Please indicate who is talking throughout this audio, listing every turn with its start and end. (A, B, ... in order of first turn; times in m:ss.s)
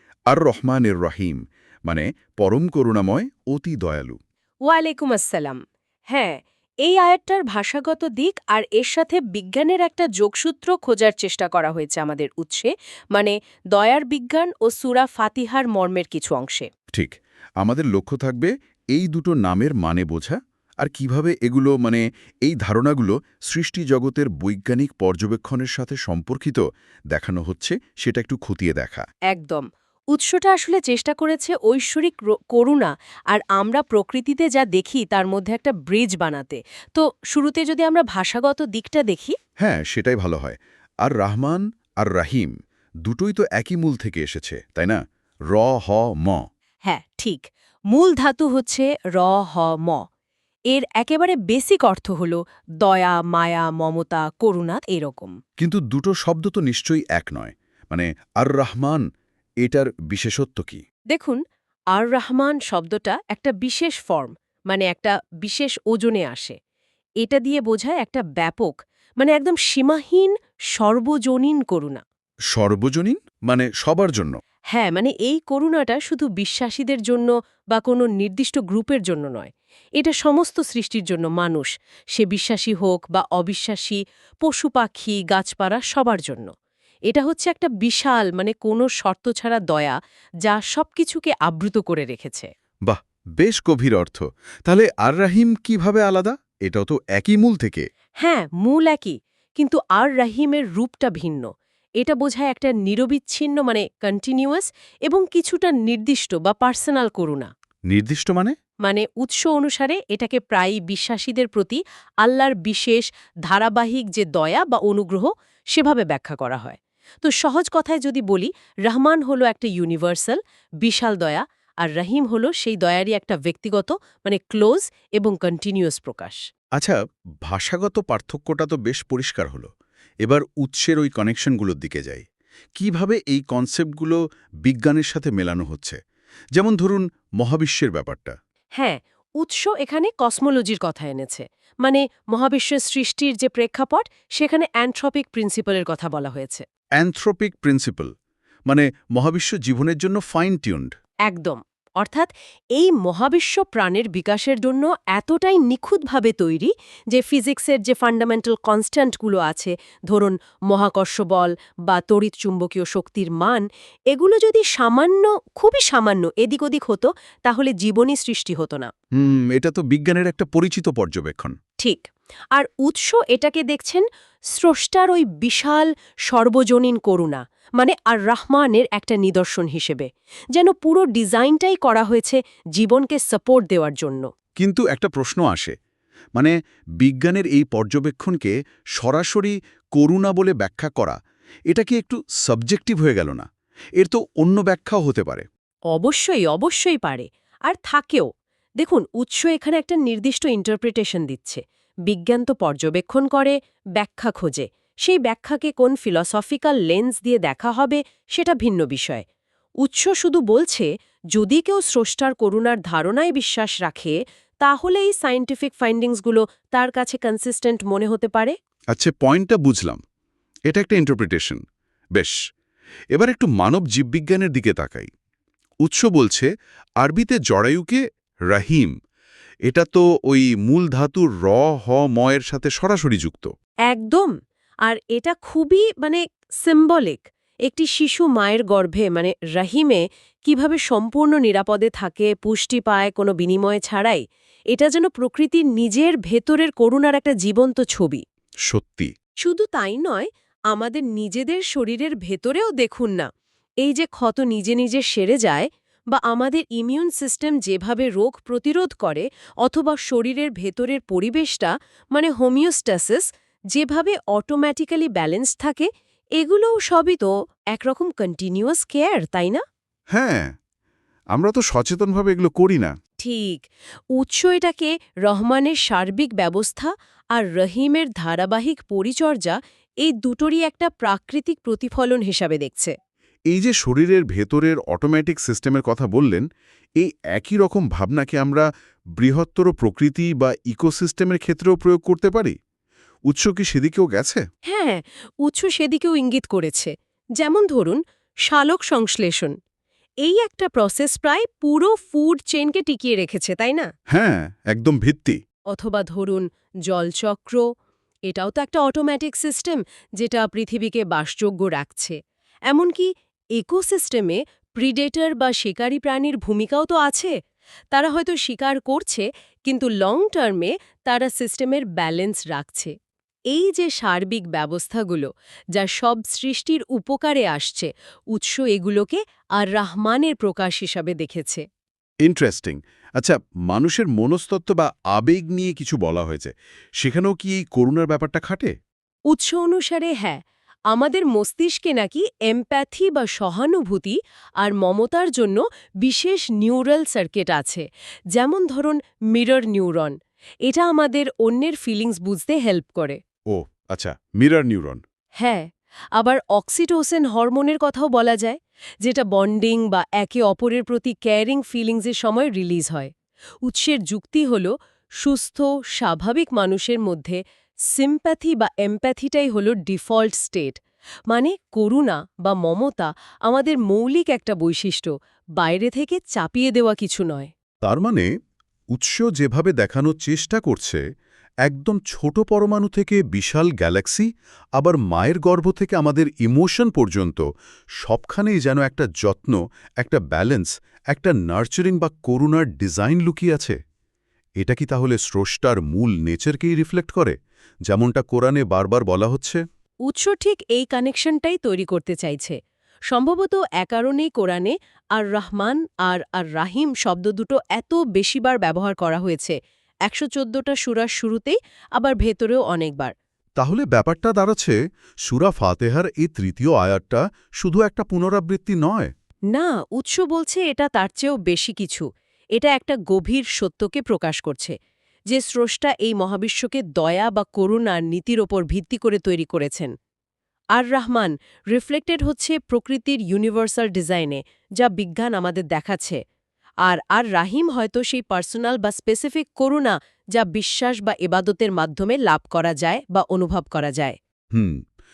0:00.3-0:04.2 A
0:04.7-0:05.6 B
0:06.1-0:16.7 B
0:16.9-0:29.0 A
0:29.3-0:39.4 B
0:39.6-0:42.5 A
0:43.0-0:45.0 A
0:45.5-0:46.4 A
0:46.8-0:50.0 B
0:50.7-0:55.3 B
0:55.6-0:59.0 A
0:59.6-1:00.8 A
1:01.1-1:01.4 B
1:01.9-1:06.5 B
1:07.2-1:12.0 B
1:12.5-1:14.4 A
1:14.7-1:26.5 B
1:27.1-1:32.5 B
1:32.9-1:37.9 A
1:38.2-1:41.5 B
1:42.0-1:47.5 B
1:47.9-1:48.5 A
1:48.8-2:06.4 B
2:06.8-2:09.7 A
2:10.2-2:12.2 A
2:12.8-2:16.0 A
2:16.6-2:18.4 A
2:18.8-2:26.6 B
2:27.0-2:28.1 A
2:28.7-2:30.9 A
2:31.3-2:48.9 B
2:49.2-2:51.6 A
2:51.8-3:04.3 B
3:04.6-3:05.7 A
3:06.4-3:11.2 A
3:11.7-3:13.4 A
3:14.0-3:15.4 A
3:15.9-3:18.3 B
3:18.8-3:29.2 B
3:29.8-3:38.5 B
3:38.9-3:40.0 A
3:40.7-3:41.6 A
3:43.1-3:45.1 A
3:45.8-3:46.5 A
3:47.0-3:48.9 A
3:49.7-3:53.5 A
3:53.9-3:54.3 B
3:54.8-4:08.2 B
4:08.7-4:09.1 A
4:09.4-4:13.3 B
4:13.8-4:29.6 B
4:30.1-4:30.5 A
4:31.3-4:32.9 A
4:33.2-4:42.9 B
4:43.5-4:46.4 A
4:47.0-4:48.6 A
4:49.2-4:52.5 A
4:53.3-4:54.4 A
4:54.7-4:59.6 B
5:00.2-5:03.9 B
5:04.1-5:05.4 A
5:05.7-5:07.6 B
5:08.3-5:12.1 B
5:12.7-5:17.3 B
5:17.9-5:22.9 B
5:23.5-5:31.6 B
5:32.2-5:38.7 A
5:39.3-5:40.4 B
5:40.9-5:50.1 B
5:50.6-5:53.2 B
5:53.5-5:55.0 A
5:56.2-6:03.1 B
6:03.6-6:07.4 B
6:07.9-6:10.8 B
6:11.3-6:17.5 B
6:17.8-6:18.3 A
6:18.9-6:21.0 A
6:21.6-6:24.3 A
6:24.8-6:27.4 A
6:28.0-6:33.8 A
6:34.6-6:37.3 A
6:37.9-6:39.6 A
6:40.1-6:42.6 B
6:43.1-6:49.6 B
6:50.1-6:53.1 B
6:53.6-6:59.1 A
6:59.5-7:04.7 B
7:05.3-7:09.9 B
7:10.8-7:16.2 B
7:16.8-7:24.2 B
7:24.5-7:24.8 A